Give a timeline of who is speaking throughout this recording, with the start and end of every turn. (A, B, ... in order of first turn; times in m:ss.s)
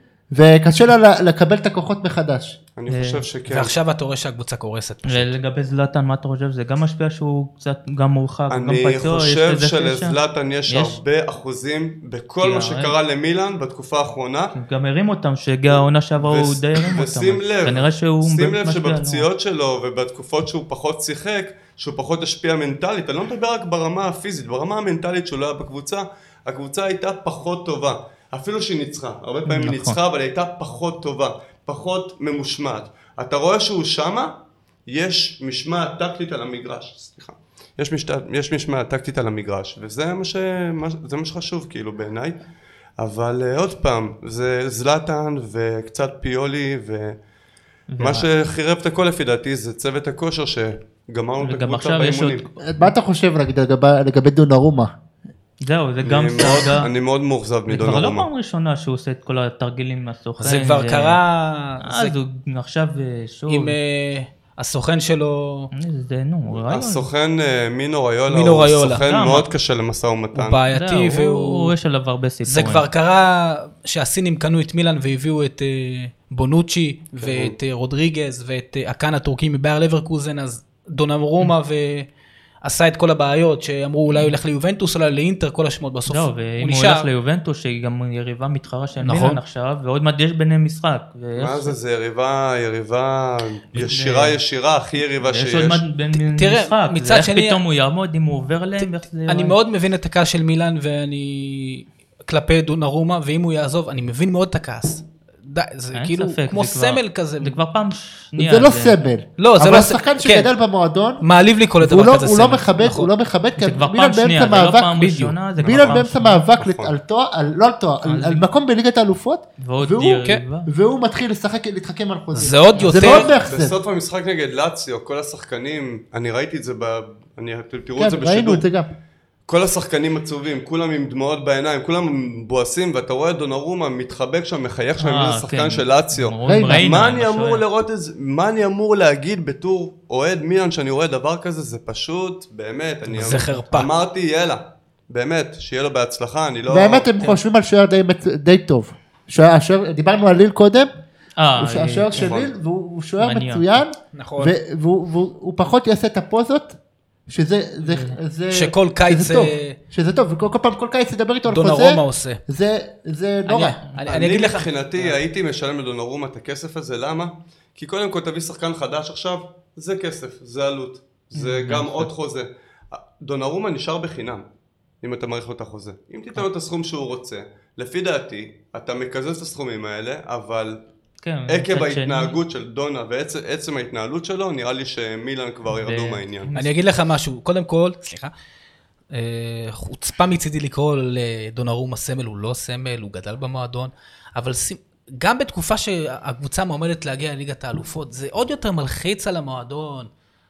0:00.3-0:02.6 A
0:02.8-0:03.8 B
0:02.9-0:03.3 C
0:03.5-0:05.3 D
0:05.1-0:10.2 C
0:08.5-0:14.6 B
0:10.7-0:11.0 C
0:12.4-0:13.0 C
0:14.5-0:19.3 C
0:15.7-0:34.4 B
0:29.5-0:30.0 C
0:34.9-0:42.4 B
0:43.0-0:47.2 B
0:47.9-0:48.3 C
0:48.0-0:52.4 B
0:51.4-0:52.9 C
0:52.6-0:54.9 A
0:55.6-0:56.9 C
0:56.0-0:58.3 B
0:57.7-1:01.2 C
1:00.4-1:02.2 D
1:01.8-1:03.8 C
1:03.5-1:05.7 D
1:05.7-1:07.1 C
1:06.5-1:10.6 B
1:08.3-1:09.0 D
1:09.0-1:09.5 C
1:10.3-1:11.7 D
1:10.7-1:12.8 C
1:12.5-1:22.1 D
1:17.2-1:17.5 B
1:22.6-1:27.1 D
1:24.1-1:24.4 C
1:26.1-1:31.8 C
1:29.0-1:29.4 D
1:31.4-1:35.8 B
1:33.7-1:34.4 C
1:35.2-1:39.6 C
1:36.1-1:37.6 D
1:38.8-1:47.6 D
1:46.0-1:49.0 C
1:48.4-1:51.2 A
1:49.4-1:50.5 D
1:51.2-1:53.1 D
1:51.8-2:03.8 A
1:53.6-1:56.4 C
1:55.0-1:55.4 D
1:55.6-1:56.0 B
1:56.6-1:56.9 B
1:58.0-1:58.5 C
1:59.6-2:00.7 C
2:02.4-2:03.3 D
2:02.9-2:08.6 B
2:08.0-2:08.9 A
2:09.5-2:27.1 B
2:15.0-2:17.6 C
2:16.5-2:16.9 A
2:23.1-2:23.7 C
2:23.2-2:23.9 D
2:26.7-2:30.9 A
2:31.4-2:32.3 C
2:31.6-2:43.8 A
2:32.2-2:32.5 B
2:33.2-2:33.8 C
2:34.1-2:34.6 D
2:37.8-2:38.2 C
2:38.5-2:39.8 D
2:41.5-2:42.4 D
2:43.5-2:45.2 D
2:44.1-2:54.4 B
2:51.4-2:52.1 C
2:55.0-3:00.8 B
3:01.2-3:02.4 C
3:01.5-3:06.5 B
3:05.7-3:06.8 C
3:06.6-3:08.3 D
3:09.1-3:20.1 D